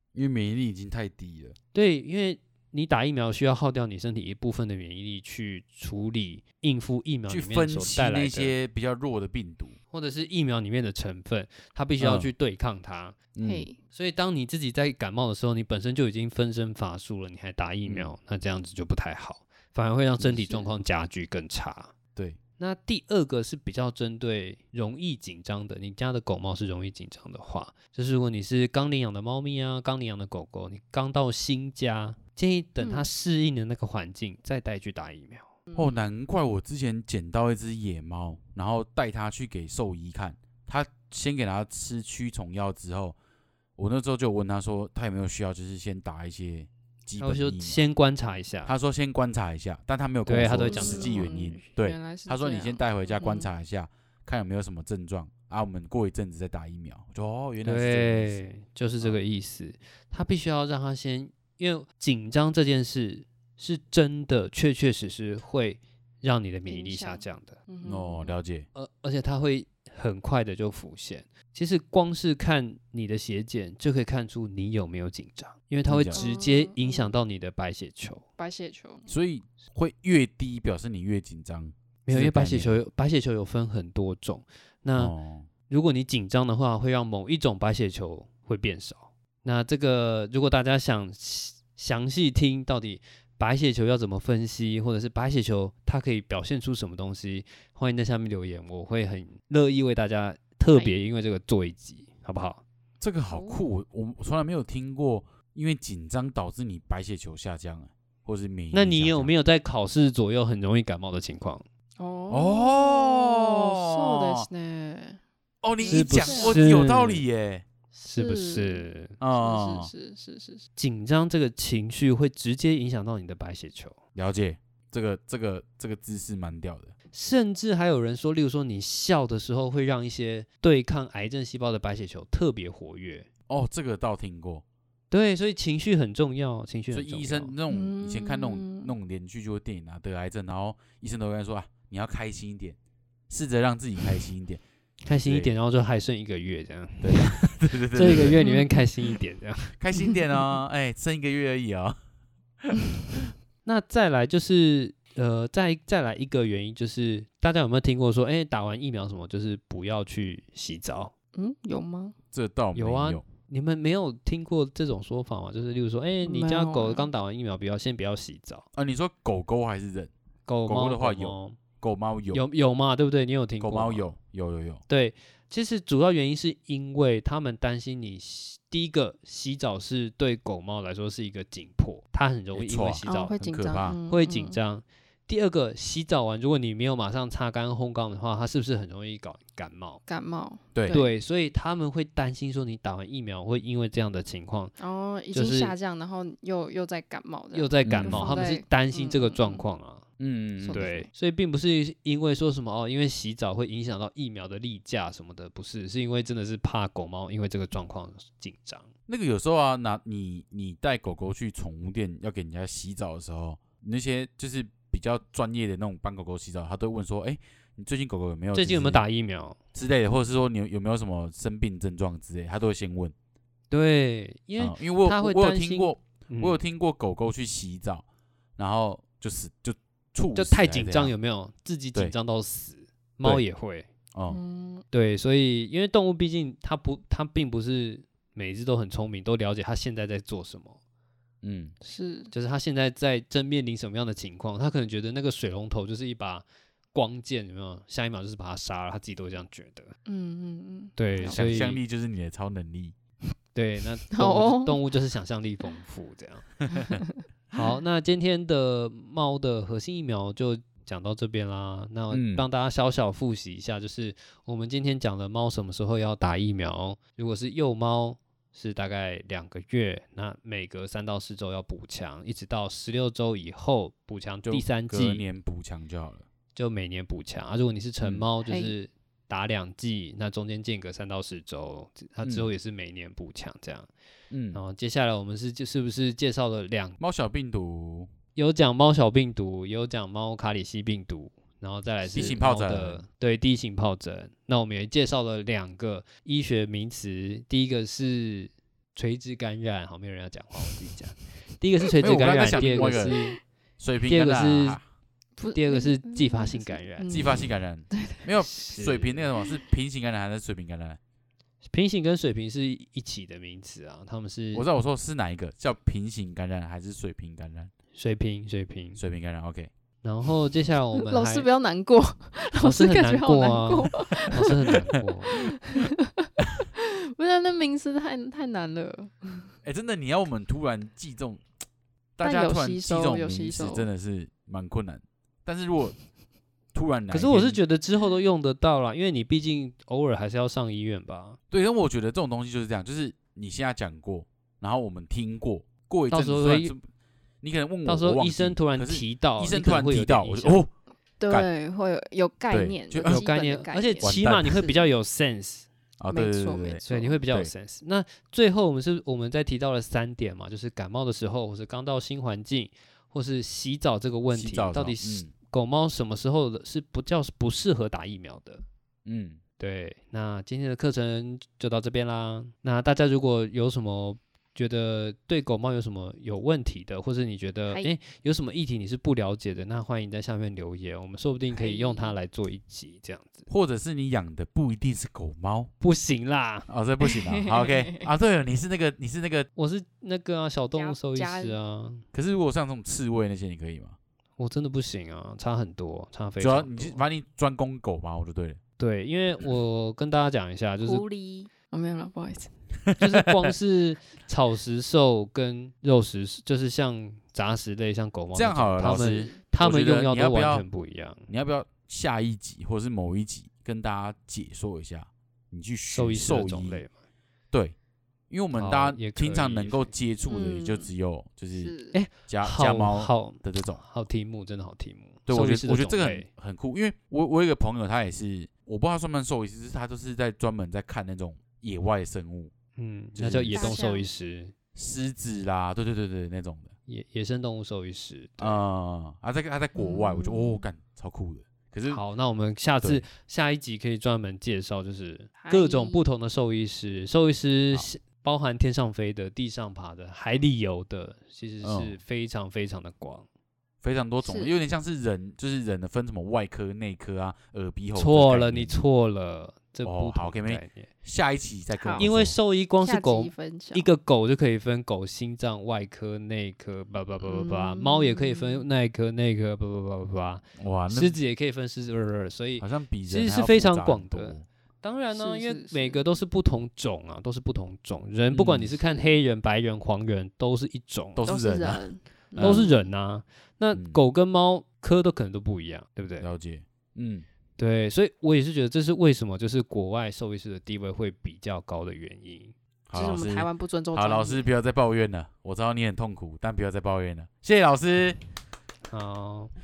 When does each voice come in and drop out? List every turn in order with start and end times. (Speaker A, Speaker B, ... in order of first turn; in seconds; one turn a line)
Speaker A: 0.1-1.6
Speaker B: 1.7-8.6
Speaker A: 7.3-9.8
Speaker B: 9.9-13.2
Speaker A: 12.0-12.3
Speaker A: 13.3-13.7
Speaker C: 13.4-13.8
Speaker B: 13.9-21.9
Speaker A: 17.9-18.1
Speaker B: 22.6-35.5
Speaker C: 32.8-33.1
Speaker C: 35.7-36.0
Speaker A: 35.8-43.1
Speaker A: 43.8-47.8
Speaker B: 47.2-48.7
Speaker A: 48.6-58.4
Speaker B: 50.3-51.3
Speaker C: 50.6-53.5
Speaker B: 57.6-67.6
Speaker C: 66.7-68.3
Speaker A: 67.8-68.7
Speaker B: 68.8-78.2
Speaker A: 75.9-76.3
Speaker C: 76.1-77.1
Speaker C: 78.4-79.1
Speaker A: 79.1-82.8
Speaker B: 82.1-85.1
Speaker A: 85.0-85.5
Speaker B: 85.7-102.6
Speaker A: 103.0-109.3
Speaker C: 103.3-103.6
Speaker B: 108.7-111.6
Speaker C: 112.0-115.2
Speaker A: 112.3-114.5
Speaker A: 115.6-117.6
Speaker C: 115.8-116.8
Speaker B: 115.8-117.2
Speaker C: 117.9-120.7
Speaker B: 118.1-119.1
Speaker A: 119.2-119.9
Speaker B: 120.8-124.0
Speaker A: 124.1-126.9
Speaker B: 127.1-133.3
Speaker A: 133.5-134.6
Speaker B: 135.1-137.6
Speaker A: 136.9-142.8
Speaker C: 137.7-138.9
Speaker A: 143.3-144.6
Speaker B: 145.1-149.8
Speaker A: 145.2-145.5
Speaker A: 147.0-148.5
Speaker A: 149.8-152.0
Speaker A: 152.6-153.3
Speaker B: 153.6-161.1
Speaker C: 161.3-162.2
Speaker A: 162.3-163.2
Speaker B: 162.8-168.6
Speaker C: 166.2-167.1
Speaker A: 168.8-170.1
Speaker B: 170.5-171.6
Speaker A: 170.7-172.4
Speaker B: 172.3-174.1
Speaker A: 173.6-174.8
Speaker B: 174.9-183.4
Speaker A: 182.6-184.0
Speaker C: 183.1-184.6
Speaker B: 184.1-190.0
Speaker C: 190.1-191.1
Speaker A: 190.8-191.0
Speaker B: 190.9-194.7
Speaker C: 194.8-199.7
Speaker B: 195.3-195.7
Speaker B: 197.5-200.0
Speaker A: 197.8-198.4
Speaker A: 200.2-200.9
Speaker C: 200.6-201.1
Speaker B: 200.7-208.9
Speaker A: 209.1-219.0
Speaker B: 218.5-219.6
Speaker A: 219.7-223.1
Speaker B: 223.7-226.6
Speaker A: 224.6-228.0
Speaker A: 228.6-231.2
Speaker B: 230.3-233.9
Speaker A: 234.1-234.4
Speaker C: 234.3-234.8
Speaker B: 234.9-240.8
Speaker A: 241.4-241.7
Speaker C: 241.8-242.3
Speaker B: 242.3-249.9
Speaker C: 250.1-251.6
Speaker B: 251.0-251.8
Speaker A: 251.2-252.9
Speaker B: 253.6-256.7
Speaker C: 254.1-254.8
Speaker C: 256.7-257.1
Speaker B: 257.5-275.2
Speaker A: 262.1-262.4
Speaker A: 274.4-276.3
Speaker B: 276.6-283.9
Speaker C: 278.4-278.7
Speaker A: 282.2-282.5
Speaker A: 284.3-284.6
Speaker B: 284.5-287.0
Speaker A: 287.0-288.1
Speaker B: 288.4-303.4
Speaker C: 292.1-292.4
Speaker A: 292.1-293.0
Speaker A: 302.0-303.2
Speaker C: 302.5-303.2
Speaker A: 303.8-304.8
Speaker B: 304.1-304.8
Speaker C: 305.4-308.2
Speaker B: 305.5-307.3
Speaker A: 307.1-311.0
Speaker B: 308.4-309.3
Speaker B: 311.7-314.6
Speaker A: 314.5-317.7
Speaker B: 317.9-319.0
Speaker A: 319.0-319.7
Speaker B: 320.0-321.5
Speaker C: 321.0-324.7
Speaker B: 322.6-325.4
Speaker C: 325.3-329.5
Speaker A: 329.6-331.4
Speaker A: 332.2-336.0
Speaker C: 332.2-333.9
Speaker A: 336.7-337.6
Speaker B: 337.1-341.4
Speaker A: 341.5-346.9
Speaker B: 346.1-346.7
Speaker A: 347.4-350.7
Speaker B: 347.9-350.6
Speaker C: 351.2-354.8
Speaker A: 352.5-353.2
Speaker B: 353.0-355.7
Speaker A: 354.0-354.6
Speaker A: 356.0-357.5
Speaker C: 356.1-357.2
Speaker B: 356.9-368.6
Speaker A: 364.3-365.3
Speaker A: 369.1-369.4
Speaker B: 369.6-383.5
Speaker C: 381.5-382.1
Speaker A: 383.5-385.7
Speaker B: 385.8-386.7
Speaker A: 386.7-389.5
Speaker C: 387.0-388.0
Speaker B: 389.6-392.0
Speaker C: 390.7-391.6
Speaker A: 392.1-394.0
Speaker B: 394.4-397.0
Speaker A: 396.4-398.6
Speaker B: 398.8-401.0
Speaker C: 400.8-402.5
Speaker A: 402.9-403.5
Speaker B: 403.0-411.3
Speaker A: 408.3-410.6
Speaker C: 408.8-409.4
Speaker A: 411.3-416.8
Speaker B: 415.9-416.9
Speaker A: 418.3-423.8
Speaker B: 418.5-419.9
Speaker C: 420.3-420.9
Speaker C: 421.6-422.0
Speaker B: 421.9-426.3
Speaker A: 425.3-432.5
Speaker B: 432.8-434.5
Speaker A: 433.2-433.8
Speaker C: 433.5-434.1
Speaker A: 434.8-436.7
Speaker B: 436.9-438.6
Speaker A: 438.4-442.0
Speaker C: 439.8-440.6
Speaker B: 441.9-453.3
Speaker C: 445.4-446.0
Speaker A: 451.6-452.0
Speaker A: 453.8-458.8
Speaker C: 454.2-454.6
Speaker B: 457.9-460.9
Speaker A: 459.8-462.4
Speaker C: 461.8-462.1
Speaker B: 462.0-481.3
Speaker C: 462.8-463.9
Speaker C: 467.2-468.6
Speaker A: 470.6-471.2
Speaker A: 472.6-474.4
Speaker C: 475.1-476.0
Speaker A: 478.3-478.7
Speaker A: 481.1-482.7
Speaker C: 481.2-482.8
Speaker B: 482.4-486.3
Speaker A: 483.7-484.0
Speaker A: 486.2-487.2
Speaker B: 487.6-492.5
Speaker A: 492.9-498.2
Speaker C: 492.9-494.5
Speaker B: 498.9-499.5